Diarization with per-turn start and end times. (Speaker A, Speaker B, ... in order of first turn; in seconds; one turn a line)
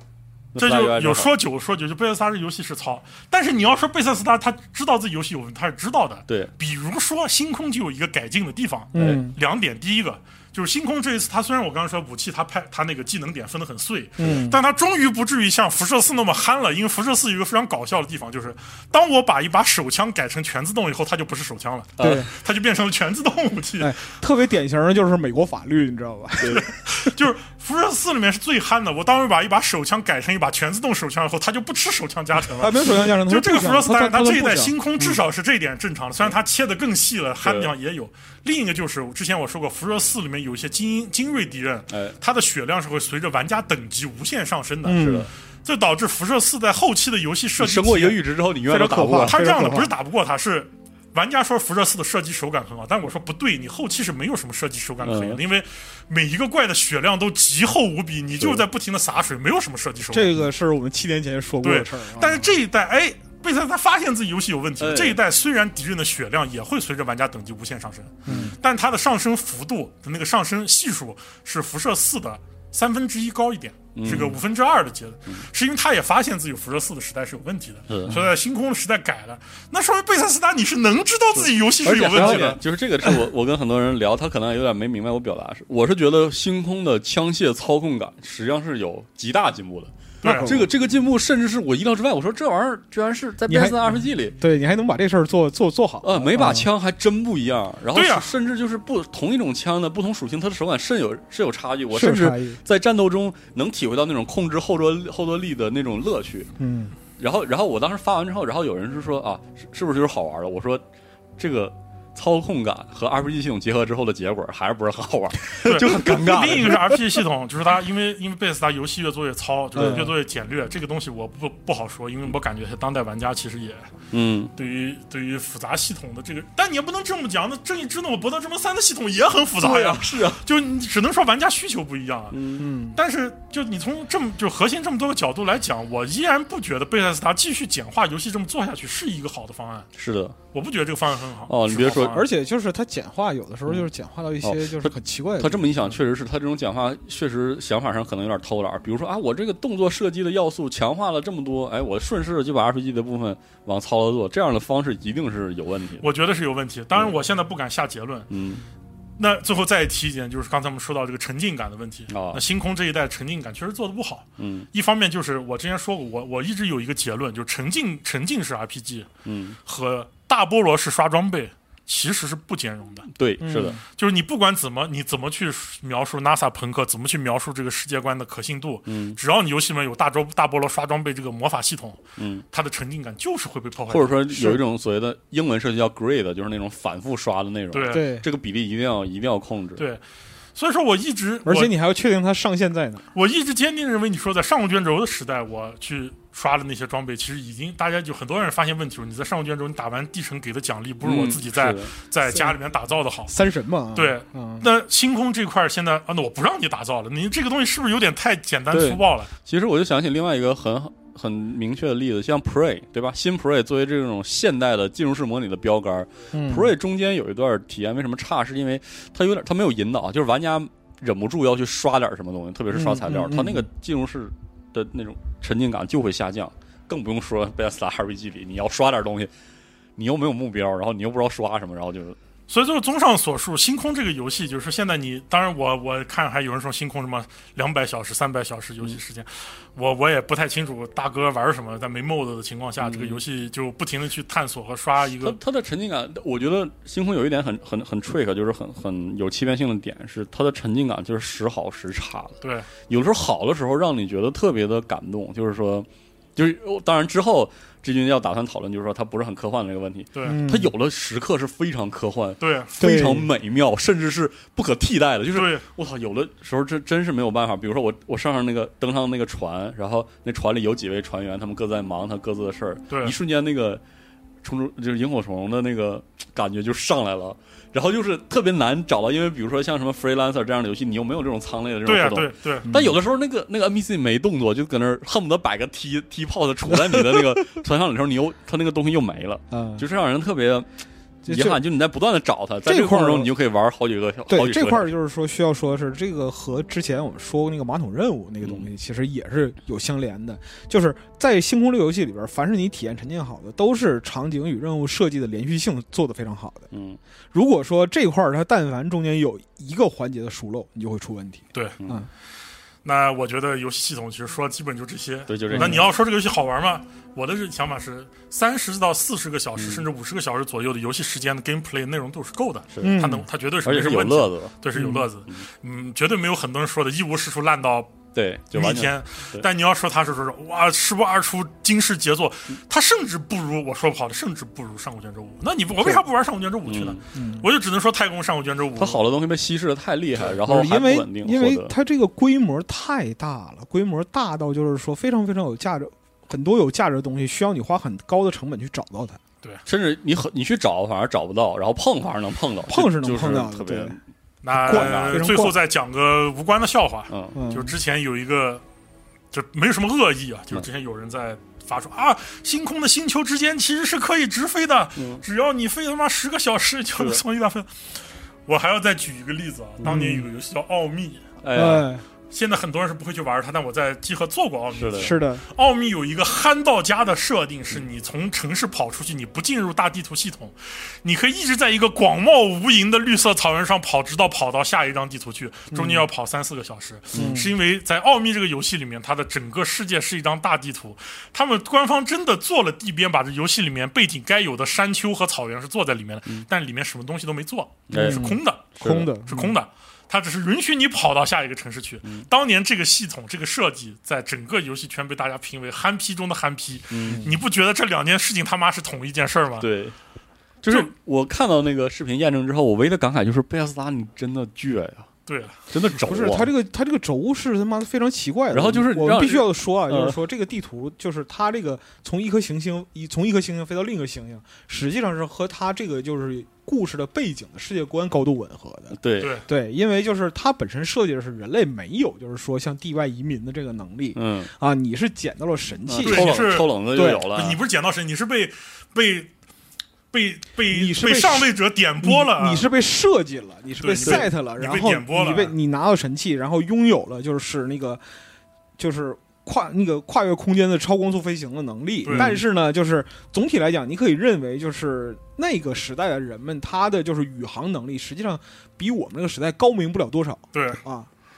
Speaker A: 0.5-1.3
Speaker B: 0.6-23.9
Speaker C: 8.9-9.3
Speaker A: 8.9-9.2
Speaker C: 14.2-14.6
Speaker A: 22.0-22.3
Speaker C: 22.0-22.3
Speaker C: 23.8-26.7
Speaker B: 26.5-48.2
Speaker C: 32.5-34.7
Speaker A: 37.4-37.7
Speaker A: 41.9-42.1
Speaker C: 44.8-45.3
Speaker A: 44.9-45.3
Speaker A: 47.6-49.4
Speaker C: 48.7-49.9
Speaker B: 49.1-60.3
Speaker A: 55.0-55.4
Speaker A: 58.4-58.6
Speaker C: 60.1-62.5
Speaker B: 61.6-82.6
Speaker A: 64.8-65.2
Speaker A: 68.3-68.5
Speaker C: 68.3-68.5
Speaker A: 74.0-74.4
Speaker A: 77.9-78.2
Speaker A: 81.3-94.3
Speaker C: 82.1-83.2
Speaker B: 90.2-90.6
Speaker C: 90.2-90.7
Speaker C: 93.5-96.7
Speaker A: 96.0-106.5
Speaker B: 97.9-98.3
Speaker C: 101.9-102.6
Speaker C: 106.6-106.9
Speaker A: 107.2-110.8
Speaker A: 111.4-117.0
Speaker B: 115.6-123.9
Speaker C: 119.8-120.1
Speaker A: 119.8-120.0
Speaker A: 124.1-124.5
Speaker B: 124.5-132.4
Speaker A: 129.6-130.4
Speaker A: 132.3-132.7
Speaker C: 132.6-133.0
Speaker B: 132.9-139.9
Speaker A: 139.9-140.3
Speaker B: 140.5-142.2
Speaker A: 141.5-142.2
Speaker C: 141.8-145.9
Speaker A: 144.4-156.1
Speaker B: 156.0-158.3
Speaker A: 158.3-158.6
Speaker B: 159.2-169.1
Speaker A: 162.1-162.4
Speaker A: 164.4-164.7
Speaker A: 169.2-169.6
Speaker B: 169.6-173.1
Speaker A: 173.1-173.8
Speaker C: 173.4-173.8
Speaker B: 173.9-184.6
Speaker A: 178.9-179.2
Speaker A: 182.2-182.4
Speaker A: 183.9-189.8
Speaker B: 187.7-188.1
Speaker C: 187.9-188.2
Speaker B: 189.8-190.0
Speaker B: 190.5-191.7
Speaker C: 191.4-193.0
Speaker B: 193.1-203.3
Speaker A: 201.0-201.9
Speaker C: 202.3-202.5
Speaker C: 203.3-204.7
Speaker B: 203.9-209.3
Speaker A: 208.7-229.3
Speaker C: 216.3-216.7
Speaker C: 222.7-223.7
Speaker A: 230.0-232.2
Speaker B: 232.5-245.4
Speaker A: 242.8-243.2
Speaker A: 245.2-252.3
Speaker B: 252.4-252.7
Speaker A: 252.9-273.8
Speaker B: 260.1-260.4
Speaker C: 260.2-260.7
Speaker B: 262.4-262.7
Speaker C: 262.8-263.3
Speaker B: 265.3-265.6
Speaker B: 272.9-273.1
Speaker A: 274.4-290.7
Speaker B: 281.8-282.7
Speaker C: 282.7-283.0
Speaker C: 286.7-287.4
Speaker C: 289.5-289.9
Speaker C: 291.2-291.6
Speaker A: 291.2-294.9
Speaker C: 292.6-293.3
Speaker C: 294.3-306.7
Speaker A: 298.4-298.7
Speaker A: 306.7-307.0
Speaker C: 307.3-312.1
Speaker B: 312.8-327.9
Speaker A: 315.3-315.9
Speaker C: 315.5-315.8
Speaker A: 319.6-319.8
Speaker A: 322.7-323.0
Speaker C: 322.8-323.2
Speaker A: 323.6-325.4
Speaker A: 328.1-329.4
Speaker B: 328.5-339.0
Speaker A: 336.6-337.0
Speaker C: 337.1-337.5
Speaker A: 338.8-341.7
Speaker C: 340.4-349.2
Speaker A: 349.6-354.0
Speaker C: 352.7-354.0
Speaker B: 354.4-358.6
Speaker C: 354.5-355.6
Speaker A: 354.6-355.3
Speaker A: 357.1-357.4
Speaker C: 357.3-357.7
Speaker B: 359.3-367.7
Speaker A: 365.0-365.2
Speaker A: 366.9-367.2
Speaker B: 368.4-371.2
Speaker C: 369.8-370.2
Speaker A: 371.4-371.9
Speaker C: 371.5-372.0
Speaker B: 372.3-398.7
Speaker A: 374.7-375.1
Speaker C: 375.0-375.4
Speaker C: 385.7-386.0
Speaker A: 387.1-387.4
Speaker C: 387.1-387.5
Speaker A: 397.9-399.1
Speaker C: 397.9-399.5
Speaker B: 399.2-409.7
Speaker A: 406.9-407.3
Speaker C: 407.1-407.4
Speaker A: 409.6-409.9
Speaker A: 410.6-415.1
Speaker B: 415.3-415.7
Speaker A: 415.7-416.5
Speaker C: 416.0-437.2
Speaker A: 418.5-420.2
Speaker A: 428.9-429.3
Speaker B: 429.2-429.4
Speaker A: 434.1-434.5
Speaker A: 435.9-437.6
Speaker B: 436.0-439.3
Speaker B: 440.1-442.6
Speaker C: 440.7-441.5
Speaker C: 442.0-448.0
Speaker B: 443.8-445.5
Speaker A: 444.0-444.3
Speaker C: 448.8-461.1
Speaker B: 452.0-452.3
Speaker A: 452.1-452.4
Speaker B: 460.5-460.8